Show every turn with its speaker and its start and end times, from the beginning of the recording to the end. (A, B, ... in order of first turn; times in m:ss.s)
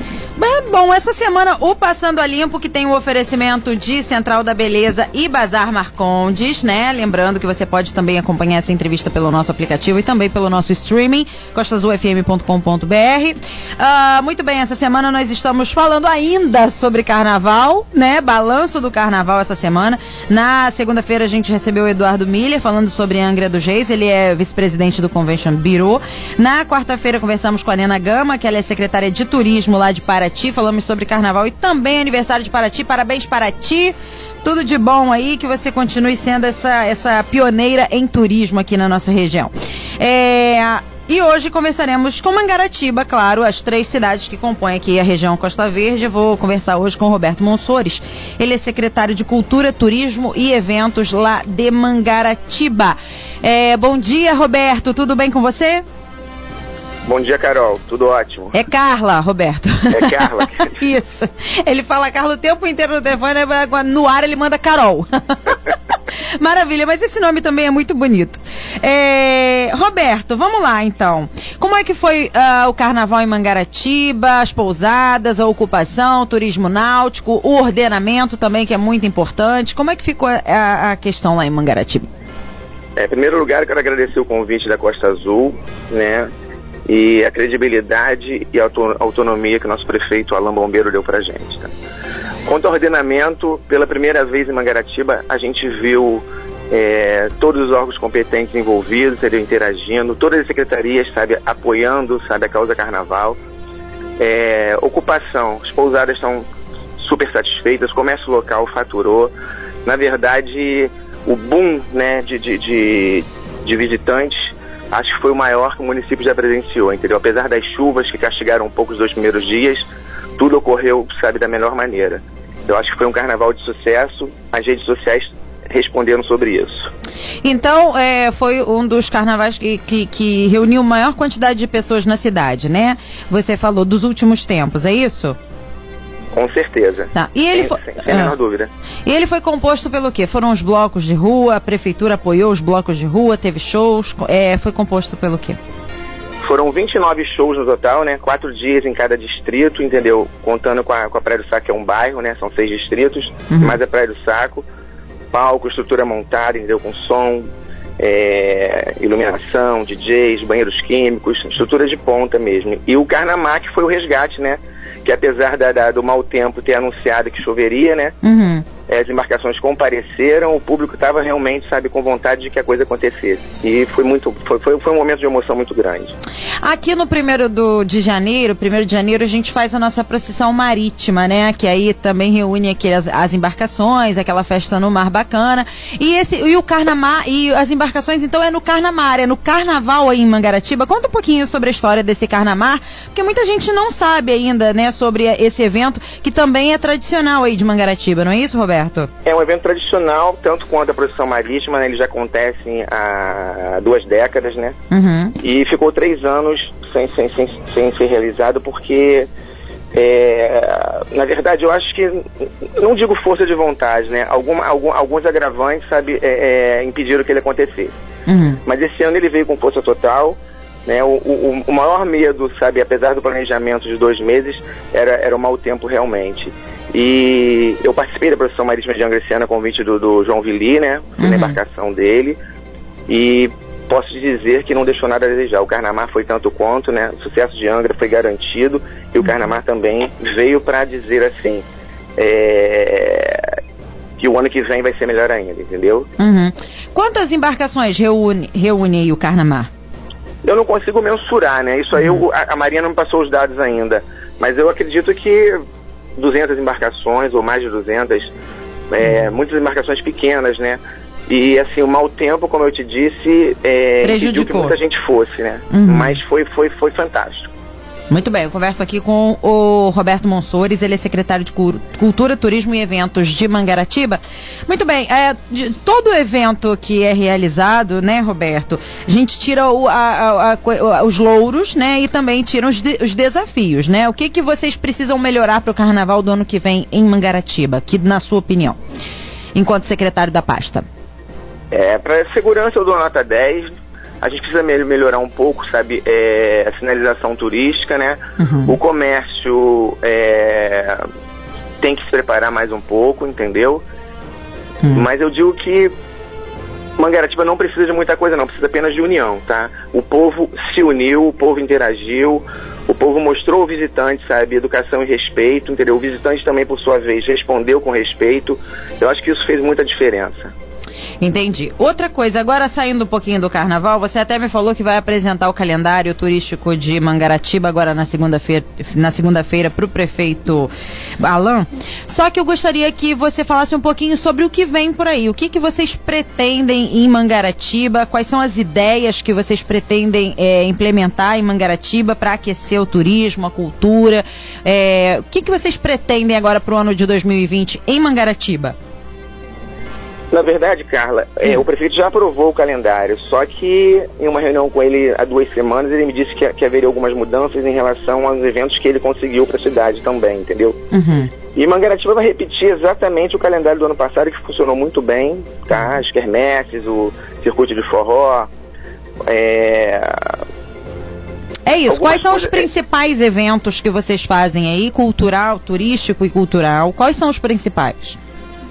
0:00.4-0:55.8 A
0:57.0-0:58.5 B
0:58.5-1:05.7 A
0:59.9-1:00.7 B
1:06.4-1:22.0 A
1:23.0-1:26.3 B
1:26.8-1:31.7 B
1:32.4-1:43.4 B
1:44.2-1:46.5 B
1:47.0-2:06.9 B
2:07.4-2:15.4 A
2:16.3-2:18.7 B
2:17.1-2:18.4 A
2:19.0-2:25.6 A
2:26.4-2:34.6 B
2:33.5-2:33.8 A
2:35.3-2:48.1 B
2:48.2-2:48.6 A
2:48.9-2:56.1 B
2:56.6-3:19.1 A
3:19.2-3:24.8 B
3:24.9-3:25.4 A
3:25.4-3:29.3 B
3:29.9-3:37.9 B
3:38.3-3:38.6 A
3:38.6-3:52.4 B
3:51.2-3:51.6 A
3:53.1-4:01.6 B
4:02.2-4:03.6 B
4:04.2-4:06.1 B
4:06.2-4:09.7 A
4:10.4-4:15.6 B
4:11.9-4:12.2 A
4:16.2-4:18.3 B
4:18.9-4:27.5 B
4:24.0-4:24.8 A
4:25.7-4:26.2 A
4:28.1-4:48.8 A
4:49.5-4:50.8 A
4:51.7-5:01.0 B
4:58.4-4:58.8 A
5:01.8-5:03.8 B
5:04.9-5:05.9 B
5:07.0-5:20.5 B
5:21.2-5:48.7 A
5:50.3-6:00.8 B
6:00.9-6:01.3 A
6:01.5-6:08.5 B
6:09.2-6:10.4 B
6:11.6-6:18.2 A
6:11.9-6:12.7 B